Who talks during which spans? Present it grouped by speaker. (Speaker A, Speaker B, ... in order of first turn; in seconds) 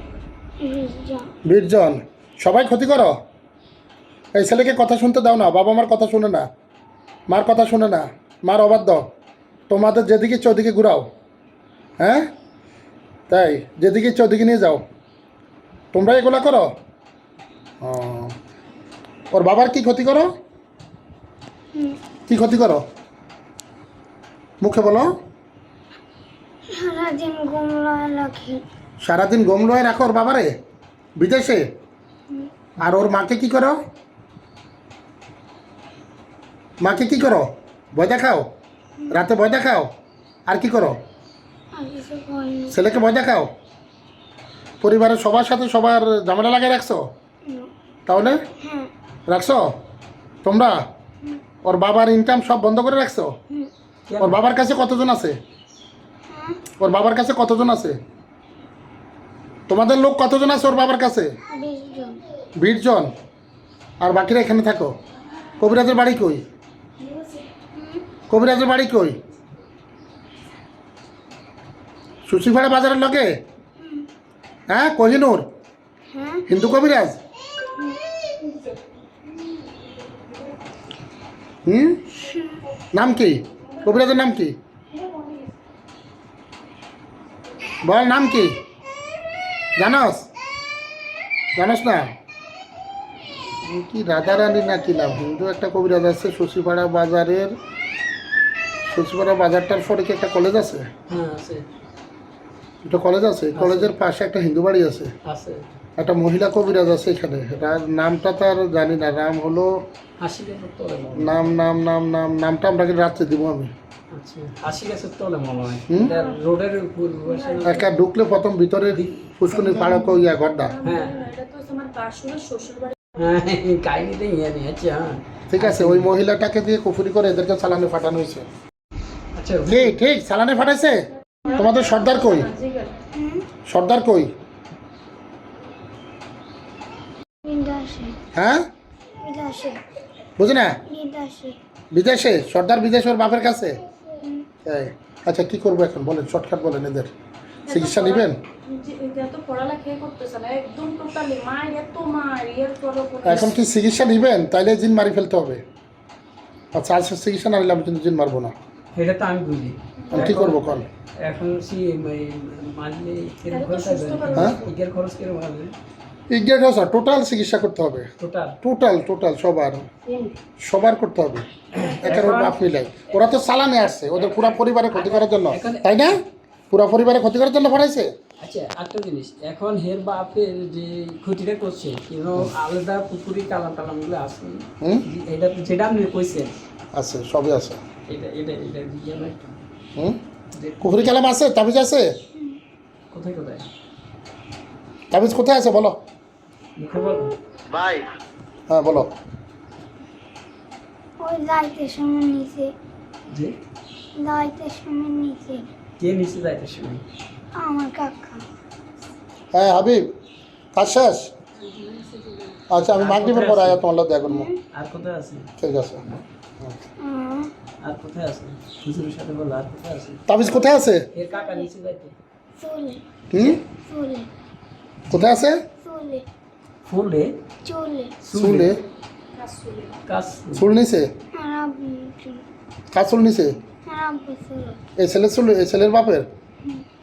Speaker A: 0.6-1.3, 26.7-28.6, 41.7-42.8, 47.5-47.7, 48.6-48.9, 56.3-56.7, 61.5-62.2, 67.7-68.0, 73.8-74.0, 76.1-76.5, 82.2-82.6, 133.1-133.5, 137.4-138.2, 139.2-139.8, 140.8-141.6, 144.2-144.4, 201.2-202.7, 204.2-205.7, 207.6-208.4, 214.2-214.6, 217.0-217.5, 221.3-221.7, 222.6-223.0, 223.8-224.3, 225.8-226.2, 227.6-228.1, 231.3-232.4, 233.8-234.8
Speaker B: 1.4-3.1, 4.3-6.4, 7.3-9.0, 9.7-11.1, 12.0-12.3, 13.3-14.8, 15.9-16.7, 17.8-18.3, 19.3-20.3, 22.3-22.8, 24.6-25.1, 29.0-30.5, 31.2-31.6, 32.8-33.8, 36.8-38.5, 39.1-39.9, 40.5-41.0, 42.7-43.5, 44.8-47.0, 48.1-48.4, 49.3-49.6, 50.4-50.8, 51.6-53.3, 54.2-55.4, 56.8-58.0, 59.7-61.3, 62.6-63.1, 64.0-64.9, 65.6-66.4, 68.3-69.2, 72.2-73.4, 74.7-75.4, 76.5-77.2, 81.7-82.0, 82.9-84.5, 87.8-88.6, 89.8-90.3, 91.5-92.1, 93.6-97.5, 98.9-100.9, 102.8-105.1, 106.0-109.7, 111.1-113.7, 115.9-116.1, 117.6-120.8, 125.5-128.5, 129.7-132.5, 133.7-134.3, 138.3-138.6, 140.4-140.8, 141.9-143.8, 144.6-147.1, 147.7-148.4, 153.2-155.6, 156.8-158.5, 160.1-160.9, 166.3-168.1, 168.6-169.9, 170.6-178.1, 186.9-187.8, 190.8-192.1, 195.1-196.0, 197.7-198.0, 198.7-199.1, 209.5-210.1, 210.7-211.3, 212.7-214.5, 215.6-216.0, 220.3-221.1, 223.3-223.6, 225.1-225.6, 228.3-228.8, 230.5-231.1, 232.9-233.6, 235.0-236.3
Speaker C: 54.1-54.4, 101.1-101.7, 103.5-103.9, 105.2-105.7, 110.2-111.6, 114.1-117.8, 118.9-119.3, 120.8-121.3, 123.2-126.1, 129.3-129.9, 158.9-160.6, 161.2-165.7, 168.2-168.6, 171.7-172.6, 174.3-176.1, 178.4-186.6, 188.1-189.6, 190.5-191.0, 193.1-193.7, 196.8-197.3, 203.3-203.5, 206.0-207.0, 211.6-213.8, 214.7-215.5, 217.8-220.2, 221.1-222.1, 226.8-227.3, 228.2-228.8, 230.1-230.7
Speaker D: 84.9-85.4, 117.3-117.8, 120.6-123.3, 131.4-132.9, 147.7-153.6, 160.0-160.3, 163.5-164.6, 229.3-229.9